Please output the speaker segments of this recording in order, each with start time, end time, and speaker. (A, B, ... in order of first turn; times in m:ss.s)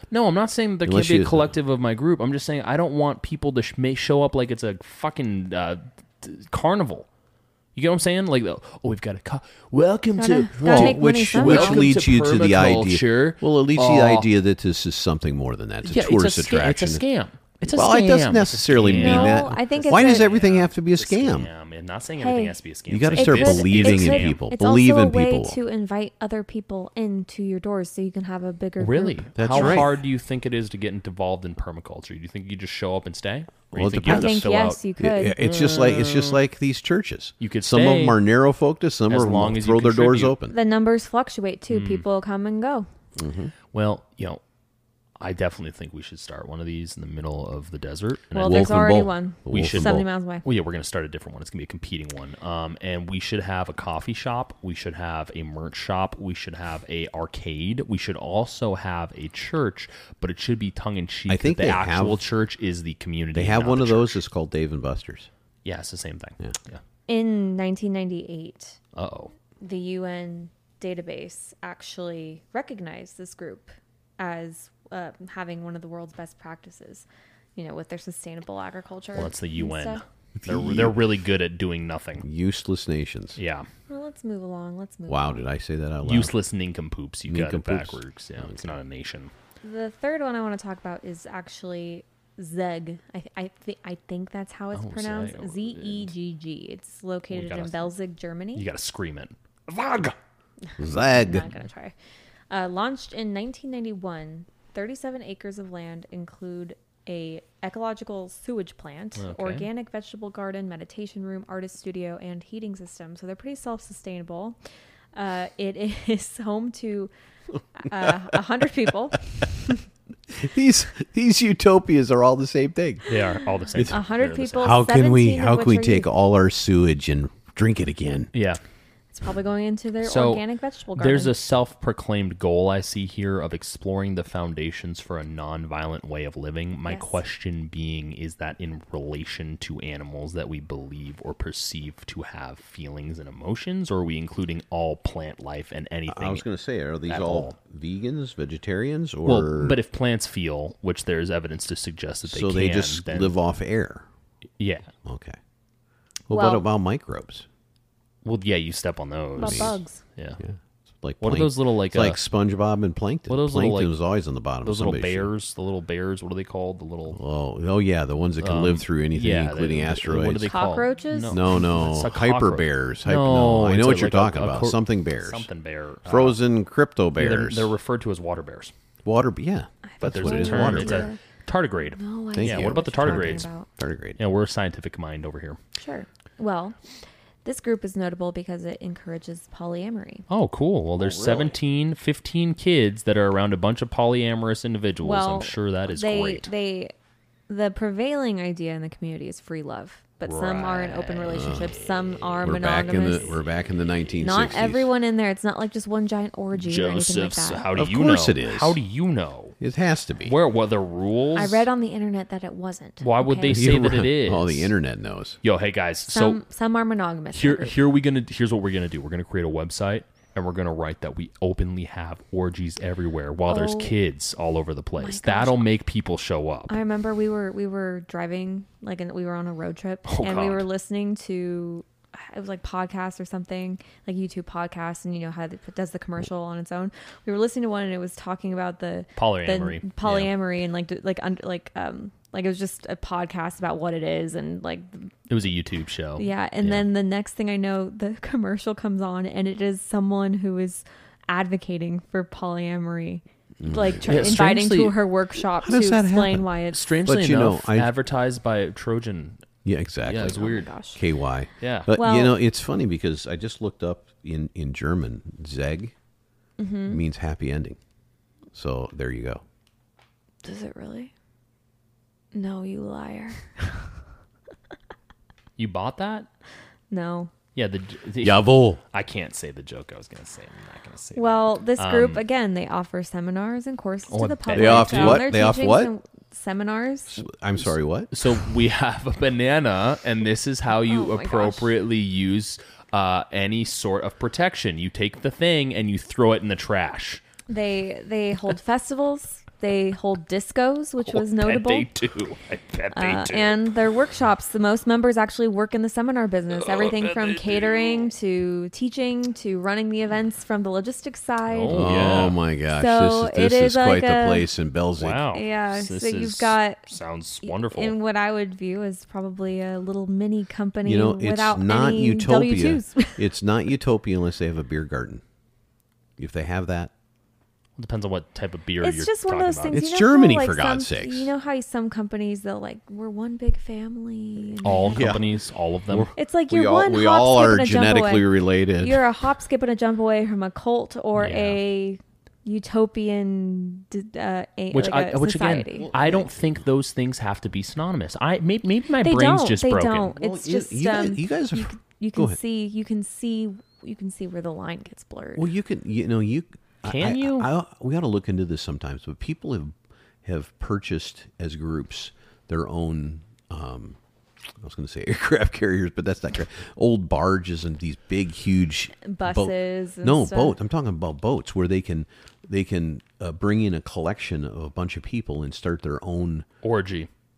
0:00.1-0:07.0 A
0:00.8-0:01.5 B
0:07.8-0:14.3 A
0:10.2-0:11.9 C
0:10.6-0:17.0 B
0:15.8-0:24.4 A
0:17.7-0:21.5 B
0:18.9-0:20.3 C
0:22.2-0:22.6 C
0:22.9-0:25.6 B
0:23.1-0:29.9 C
0:28.8-0:34.8 A
0:29.4-0:29.9 B
0:33.7-0:40.6 B
0:34.0-0:35.4 C
0:35.4-0:36.4 A
0:37.4-0:38.2 A
0:39.1-0:40.3 A
0:40.5-0:42.9 C
0:41.7-0:42.0 A
0:43.2-0:43.5 B
0:43.7-0:44.4 A
0:45.2-1:04.2 A
0:48.3-0:50.4 C
0:48.4-0:50.0 B
1:01.3-1:02.2 B
1:03.3-1:05.3 B
1:05.6-1:06.8 A
1:07.1-1:08.8 C
1:09.0-1:09.3 A
1:09.6-1:20.0 C
1:19.1-1:22.3 A
1:20.4-1:21.0 B
1:22.2-1:23.4 B
1:23.4-1:23.7 A
1:23.9-1:25.4 C
1:25.1-1:26.3 B
1:26.0-1:29.3 A
1:27.3-1:28.8 B
1:29.6-1:38.7 C
1:34.7-1:36.1 A
1:37.3-1:37.9 A
1:38.6-1:40.2 A
1:40.6-1:41.9 C
1:40.8-1:41.5 B
1:42.5-1:54.6 C
1:49.2-1:49.7 A
1:55.1-1:57.1 C
1:57.8-1:59.7 C
2:00.3-2:03.1 B
2:03.1-2:04.7 A
2:03.9-2:06.1 C
2:04.6-2:08.3 B
2:08.3-2:08.6 A
2:09.1-2:11.3 C
2:10.0-2:10.4 A
2:11.0-2:26.4 A
2:16.9-2:17.1 C
2:26.1-2:29.8 B
2:27.0-2:27.5 A
2:29.3-2:33.3 A
2:32.3-2:34.0 B
2:34.6-2:34.9 A
2:35.0-2:35.4 B
2:36.3-2:37.4 B
2:36.3-2:36.6 C
2:38.2-2:40.4 A
2:39.4-2:40.0 C
2:39.4-2:39.8 B
2:40.4-2:45.3 B
2:41.2-2:42.2 A
2:43.3-2:43.9 A
2:44.6-2:47.2 A
2:47.1-2:50.6 B
2:48.4-2:56.4 A
2:50.5-2:51.4 C
2:51.3-2:55.5 B
2:56.0-2:57.7 B
2:57.2-2:58.7 A
2:59.0-3:01.1 B
2:59.8-3:01.2 C
3:00.0-3:03.5 A
3:02.0-3:03.7 C
3:02.3-3:04.2 B
3:04.2-3:05.6 A
3:05.8-3:06.8 C
3:07.4-3:10.2 C
3:10.3-3:16.5 A
3:11.0-3:11.5 B
3:15.0-3:16.9 C
3:17.5-3:23.3 C
3:20.2-3:23.4 A
3:21.3-3:21.8 B
3:22.4-3:24.9 B
3:24.2-3:27.7 C
3:26.5-3:29.6 A
3:27.8-3:28.8 B
3:29.6-3:30.4 B
3:30.2-3:31.7 A
3:31.3-3:33.7 C
3:33.0-3:34.7 A
3:33.5-3:35.4 B
3:35.4-3:36.4 A
3:36.1-3:37.8 C
3:37.3-3:46.8 A
3:43.5-3:43.9 C
3:45.0-3:45.7 C
3:46.7-4:05.1 C
3:50.1-3:50.6 A
3:59.2-4:00.3 A
4:05.3-4:06.8 A
4:06.2-4:16.8 C
4:13.6-4:14.4 B
4:14.0-4:15.0 A
4:15.6-4:16.5 B
4:16.7-4:19.5 A
4:17.0-4:17.9 B
4:19.6-4:25.9 B
4:20.0-4:20.7 A
4:20.2-4:21.0 C
4:21.6-4:21.9 A
4:21.9-4:22.4 C
4:26.6-4:27.0 C
4:26.9-4:27.8 B
4:28.5-4:29.4 B
4:30.4-4:31.1 C
4:32.3-4:33.8 C
4:35.6-4:36.3 A
4:36.9-4:37.3 C
4:37.5-4:42.2 A
4:38.2-4:38.8 B
4:41.1-4:47.2 C
4:44.1-4:45.2 A
4:44.5-4:45.9 B
4:47.1-4:48.1 B
4:48.1-4:57.2 A
4:50.7-4:51.7 C
4:57.5-5:01.9 C
5:01.0-5:03.6 A
5:02.9-5:12.0 C
5:06.6-5:08.0 A
5:11.5-5:12.4 A
5:11.7-5:15.3 B
5:12.7-5:14.5 C
5:15.0-5:18.0 A
5:15.3-5:16.8 C
5:17.4-5:23.2 C
5:20.8-5:25.2 B
5:26.2-5:26.9 B
5:27.8-5:29.8 A
5:28.8-5:35.1 C
5:29.7-5:31.3 B
5:34.6-5:36.1 A
5:34.9-5:35.2 B
5:35.9-5:39.0 B
5:36.2-5:45.9 C
5:41.2-5:41.6 A
5:44.7-5:50.1 A
5:45.7-5:46.6 B
5:49.0-5:55.5 C
5:50.2-5:52.4 B
5:55.4-6:04.0 B
5:56.8-5:57.5 A
6:04.6-6:16.5 B
6:09.0-6:10.6 C
6:16.6-6:17.1 A